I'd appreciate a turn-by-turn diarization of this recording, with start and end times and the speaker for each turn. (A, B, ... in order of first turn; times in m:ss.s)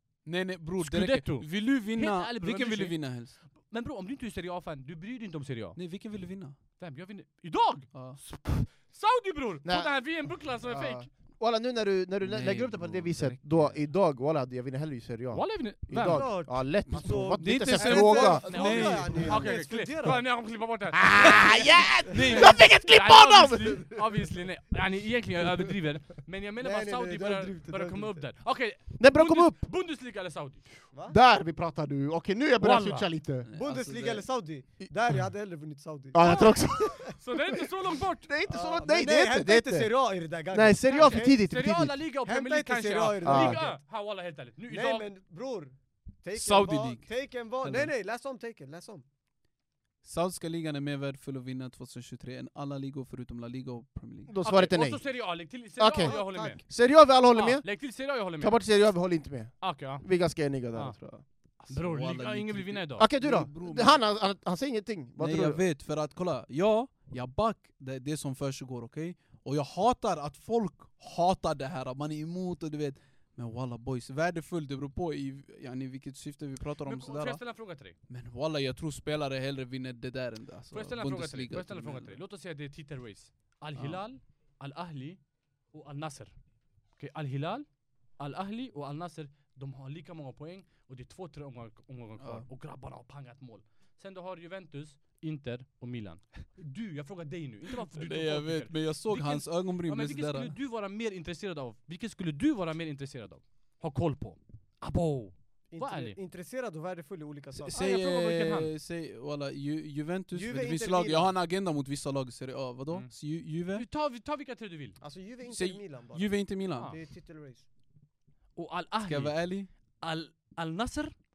0:00.3-0:03.4 A
0:00.8-0:05.8 B
0:05.8-0:06.6 A
0:06.8-0:11.1 B
0:07.9-0:08.2 A
0:09.6-0:10.0 C
0:10.6-0:18.5 C
0:12.2-0:13.8 A
0:15.3-0:16.4 B
0:16.0-0:20.2 D
0:17.4-0:19.6 A
0:18.2-0:30.7 B
0:20.9-0:24.0 C
0:22.1-0:22.4 D
0:22.1-0:22.6 A
0:26.6-0:28.2 D
0:29.0-0:29.6 C
0:31.1-0:33.5 C
0:32.6-0:33.1 B
0:33.5-0:34.3 A
0:33.6-0:37.1 D
0:36.1-0:37.7 C
0:36.2-0:38.3 B
0:38.2-0:39.9 C
0:38.5-0:41.4 D
0:40.5-0:42.0 C
0:40.9-0:45.1 B
0:42.2-0:43.8 D
0:43.2-0:43.6 C
0:44.7-0:49.1 D
0:46.4-0:47.1 A
0:47.6-0:47.9 A
0:50.0-0:54.3 A
0:54.3-0:55.0 C
0:54.4-0:56.6 B
0:55.8-0:57.7 C
0:56.0-0:56.6 D
0:57.3-0:58.6 B
0:58.4-1:01.2 C
0:59.6-1:00.1 B
1:01.6-1:04.0 A
1:01.7-1:03.1 B
1:03.0-1:05.6 C
1:05.2-1:17.4 A
1:16.8-1:18.0 B
1:18.1-1:22.2 A
1:20.7-1:25.2 B
1:25.7-1:26.3 B
1:27.0-1:27.7 B
1:28.2-1:46.2 B
1:32.2-1:32.5 A
1:37.9-1:40.5 A
1:45.7-1:47.8 D
1:47.6-1:53.8 A
1:47.7-1:48.7 B
1:50.3-1:51.3 D
1:53.7-1:55.0 B
1:55.0-1:57.6 D
1:55.5-1:56.9 A
1:58.6-2:01.1 B
1:59.0-1:59.7 A